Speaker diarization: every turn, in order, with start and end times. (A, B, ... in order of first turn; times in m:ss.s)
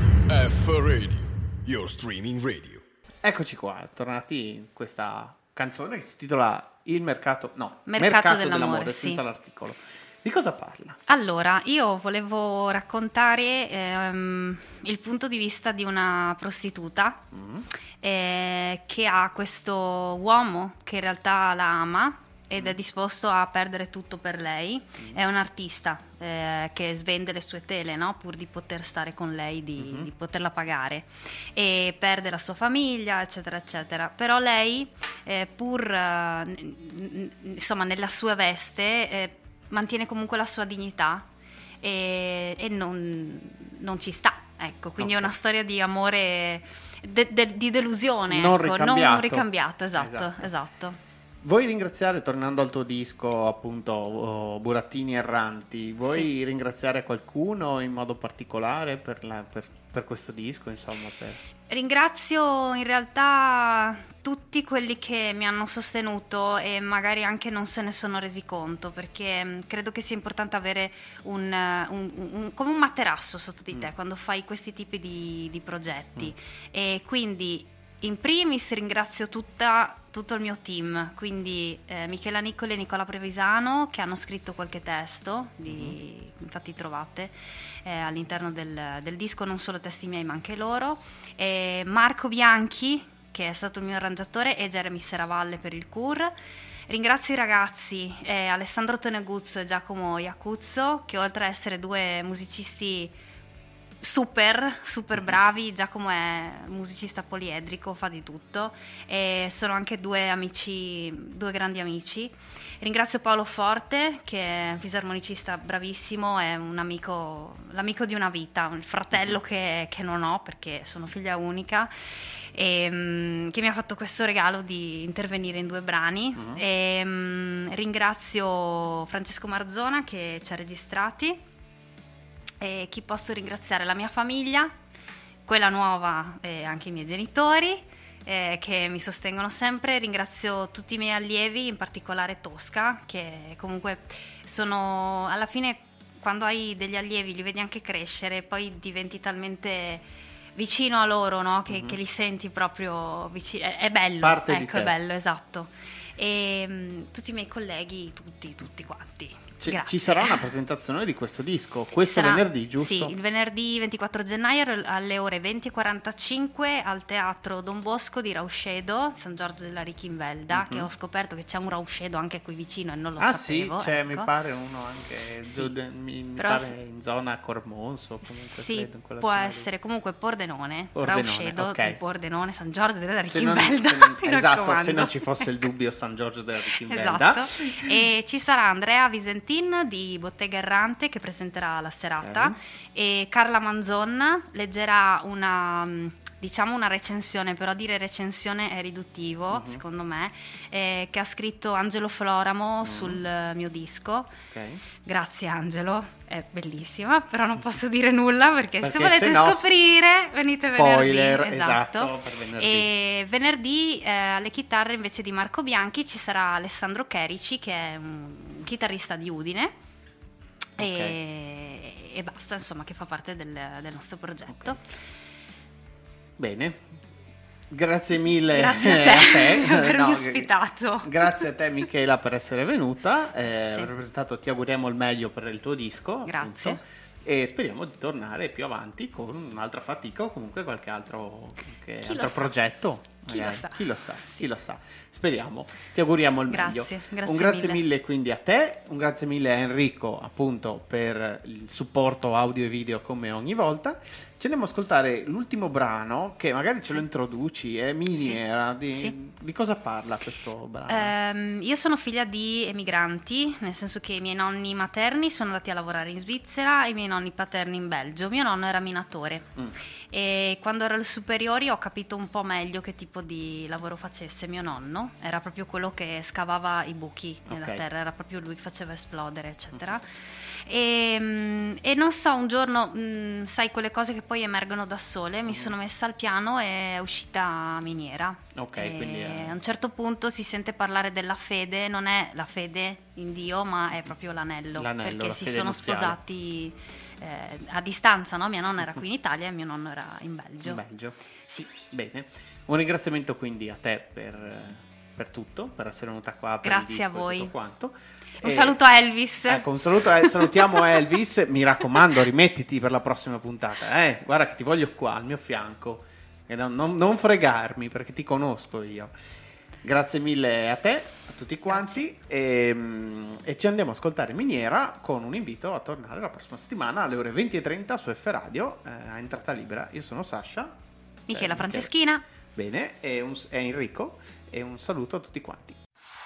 0:00.3-0:02.8 A
0:03.2-0:11.0 B
0:07.9-0:09.2 C
0:11.1-0:17.2 C
0:17.3-0:17.7 B
0:18.0-0:41.3 C
0:29.8-0:30.1 B
0:41.8-0:51.0 C
0:45.0-0:45.3 B
0:48.3-0:50.5 B
0:51.4-1:01.4 B
1:01.7-1:36.3 C
1:25.7-1:26.0 B
1:36.9-1:43.1 C
1:44.0-2:11.4 C
2:06.4-2:06.6 B
2:12.6-2:14.8 C
2:15.5-2:30.0 C
2:30.6-2:40.4 C
2:31.7-2:32.0 B
2:34.2-2:34.9 B
2:39.6-2:43.1 B
2:42.0-2:54.3 C
2:50.5-2:50.9 B
2:53.2-2:59.7 B
2:55.4-2:55.7 C
2:56.4-2:56.7 C
2:58.3-3:05.5 C
3:01.0-3:02.0 B
3:03.2-3:08.1 B
3:06.8-3:24.3 C
3:12.2-3:12.6 B
3:19.5-3:19.8 B
3:22.8-3:23.2 B
3:24.5-3:24.8 B
3:25.0-3:39.7 C
3:28.8-3:29.6 B
3:30.6-3:32.9 B
3:40.8-3:41.2 B
3:40.8-3:44.8 C
3:44.5-3:44.8 B
3:46.4-3:46.9 B
3:47.7-4:21.1 B
3:48.5-3:51.4 C
3:56.2-3:56.8 C
4:02.0-4:02.6 C
4:03.3-4:04.4 C
4:06.5-4:07.8 C
4:20.9-4:29.5 C
4:30.1-5:00.8 C
4:37.5-4:37.8 B
4:48.6-4:49.6 B
4:54.8-4:56.2 B
5:00.6-5:01.2 B
5:01.8-5:08.8 B
5:06.6-5:07.5 C
5:08.4-5:10.8 C
5:09.5-5:19.1 B
5:19.8-5:30.8 B
5:21.7-5:22.0 C
5:31.3-5:32.2 C
5:31.3-5:31.9 B
5:32.6-5:35.8 B